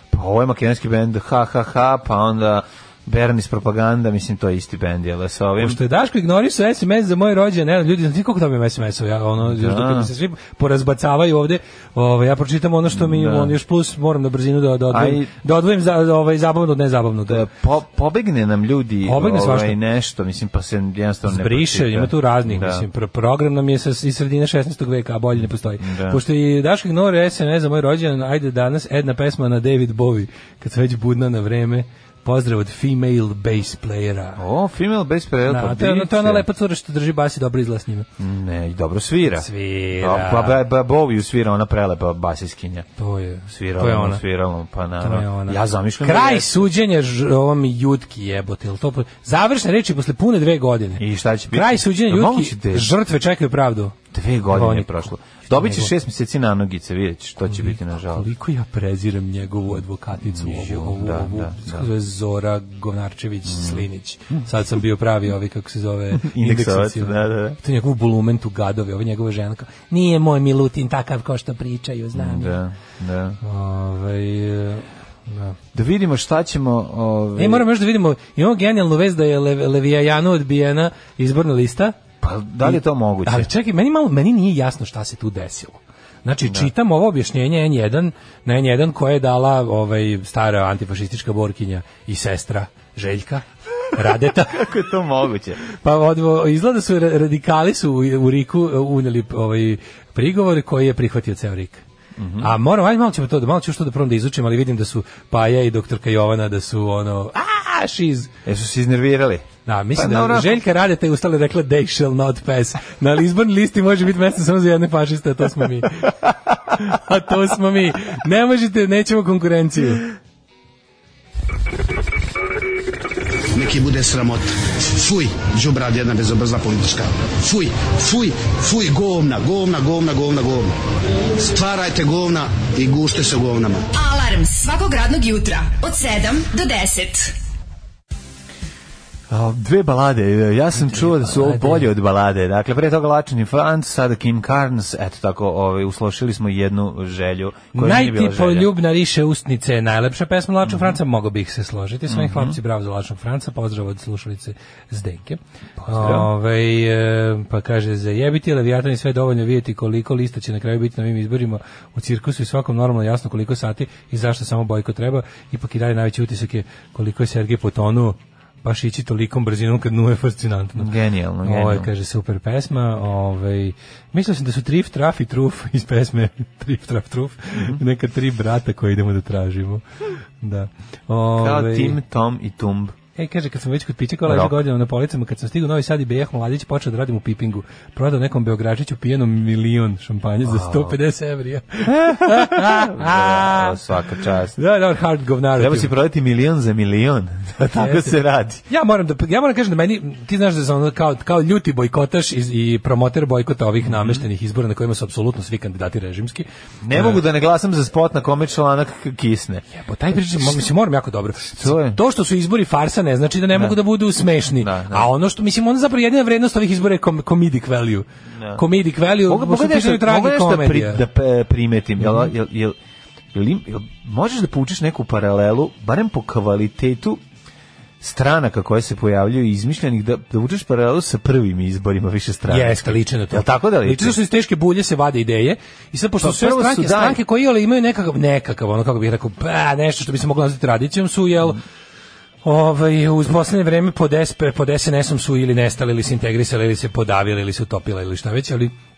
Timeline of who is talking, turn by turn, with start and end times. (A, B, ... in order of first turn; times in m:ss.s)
0:00.1-0:05.8 A
0:05.6-0:17.5 B
0:09.4-0:10.1 A
0:12.9-0:13.5 A
0:14.9-0:15.3 A
0:17.3-0:22.9 A
0:19.1-0:19.8 B
0:21.3-0:34.4 B
0:25.8-0:26.2 A
0:34.4-0:36.4 A
0:35.5-0:38.1 B
0:38.2-0:42.9 A
0:39.3-0:40.6 B
0:43.0-0:44.2 B
0:43.5-0:46.7 A
0:45.0-0:54.0 B
0:51.0-0:52.9 A
0:54.1-0:58.3 A
0:54.5-0:55.9 B
0:57.5-1:12.6 B
1:00.2-1:01.9 A
1:03.5-1:03.8 A
1:06.1-1:07.6 A
1:12.1-1:13.4 A
1:13.4-1:15.6 B
1:15.7-1:17.7 A
1:17.4-1:22.0 B
1:22.2-1:23.5 A
1:22.6-1:34.6 B
1:26.4-1:26.7 A
1:34.5-1:35.6 A
1:35.8-1:41.8 B
1:42.2-1:42.5 A
1:42.4-1:48.3 B
1:48.5-1:50.6 A
1:49.7-1:56.1 B
1:56.7-2:00.1 B
2:03.6-2:04.2 C
2:05.0-2:10.7 C
2:11.4-2:13.7 C
2:13.9-2:17.4 D
2:19.3-2:28.7 A
2:20.8-2:21.9 B
2:27.8-2:50.9 B
2:30.6-2:31.0 A
2:32.1-2:32.6 A
2:35.8-2:36.3 A
2:50.8-2:51.9 A
2:51.4-2:59.8 B
2:57.5-2:57.8 A
3:00.4-3:02.0 B
3:01.4-3:03.0 A
3:03.2-3:13.8 B
3:04.2-3:04.6 A
3:10.4-3:11.0 A
3:11.8-3:14.6 A
3:14.6-3:15.9 B
3:15.6-3:18.6 A
3:17.8-3:18.2 B
3:18.7-3:27.2 B
3:23.8-3:24.2 A
3:26.8-3:29.6 A
3:29.7-3:41.0 B
3:30.4-3:30.6 A
3:31.6-3:32.0 A
3:34.6-3:35.1 A
3:38.4-3:38.6 A
3:39.3-3:42.8 A
3:43.3-3:47.2 A
3:48.0-3:54.2 A
3:52.5-4:01.6 B
3:56.2-3:57.2 A
4:02.4-4:08.7 B